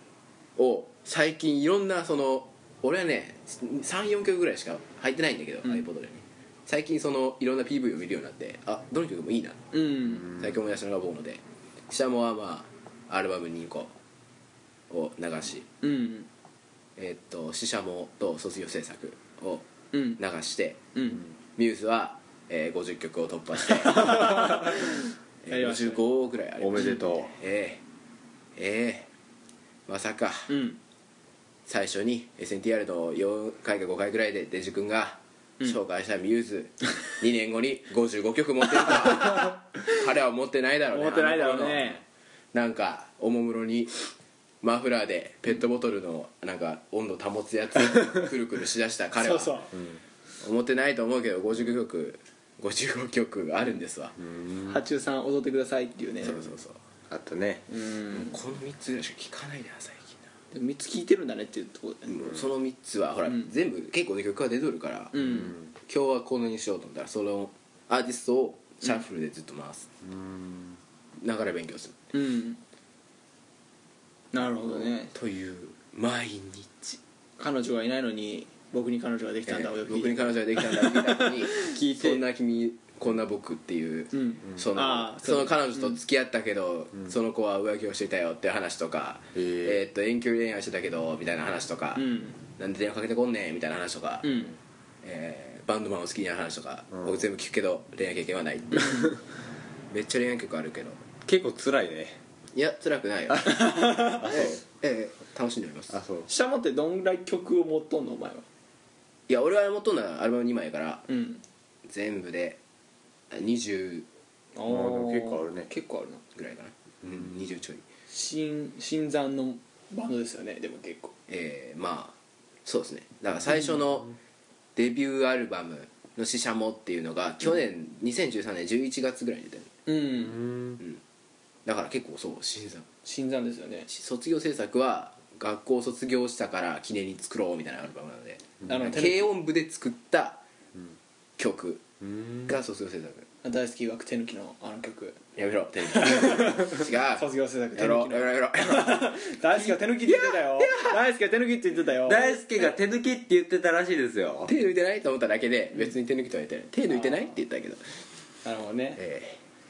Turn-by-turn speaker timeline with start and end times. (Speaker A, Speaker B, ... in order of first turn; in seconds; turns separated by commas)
Speaker A: 0.6-9.6, Speaker B: 9.7-10.3, Speaker A: 10.2-13.9, Speaker A: 14.9-15.7, Speaker B: 15.8-16.3, Speaker A: 17.0-19.6, Speaker B: 19.9-20.2, Speaker A: 20.2-20.8, Speaker B: 20.9-21.2, Speaker A: 21.6-24.9, Speaker B: 23.7-26.0, Speaker A: 25.4-27.8, Speaker C: 26.6-27.3, Speaker A: 28.6-29.1, Speaker A: 29.9-30.5, Speaker B: 30.5-30.8, Speaker A: 31.7-41.9, Speaker B: 40.9-42.0, Speaker A: 42.5-43.9, Speaker A: 44.6-49.5, Speaker B: 49.2-49.7, Speaker C: 49.7-50.0, Speaker A: 50.4-54.1, Speaker C: 54.2-54.8, Speaker B: 54.7-56.4, Speaker A: 56.2-56.8, Speaker C: 57.1-57.7, Speaker B: 57.7-58.4, Speaker A: 58.1-60.2, Speaker B: 60.5-62.2, Speaker A: 62.1-65.2, Speaker B: 65.1-65.5, Speaker C: 65.2-65.7, Speaker A: 65.8-69.9, Speaker C: 70.0-70.8, Speaker A: 71.2-72.0, Speaker B: 72.1-72.6, Speaker B: 74.3-75.1, Speaker A: 74.6-77.0, Speaker B: 77.4-81.7, Speaker A: 79.5-94.5, Speaker C: 81.6-82.2, Speaker B: 84.1-86.0, Speaker C: 89.3-89.8, Speaker B: 92.0-92.4, Speaker B: 94.2-94.5, Speaker A: 95.0-99.1, Speaker A: 99.9-101.0, Speaker C: 101.2-102.2, Speaker A: 102.5-106.0, Speaker B: 103.5-104.3, Speaker C: 104.1-104.6, Speaker C: 105.9-106.3, Speaker B: 106.3-108.5, Speaker A: 109.3-111.1, Speaker B: 111.1-111.4, Speaker A: 111.9-112.6, Speaker A: 113.3-114.1, Speaker B: 114.5-116.2, Speaker C: 114.7-115.7, Speaker A: 116.3-117.8, Speaker B: 118.1-121.1, Speaker A: 121.3-124.1, Speaker A: 124.8-129.7, Speaker B: 129.9-130.4, Speaker C: 130.2-130.8, Speaker A: 131.7-132.9, Speaker B: 133.1-133.9, Speaker A: 133.9-140.4, Speaker C: 138.6-138.9, Speaker B: 138.7-139.3, Speaker A: 141.4-141.8, Speaker C: 142.0-142.5, Speaker A: 142.5-143.3, Speaker B: 143.4-145.2, Speaker A: 145.4-149.0, Speaker B: 145.9-152.4, Speaker A: 149.6-151.0, Speaker C: 152.1-154.5, Speaker A: 154.5-157.8, Speaker B: 156.9-157.3, Speaker B: 158.4-159.0, Speaker A: 159.0-159.4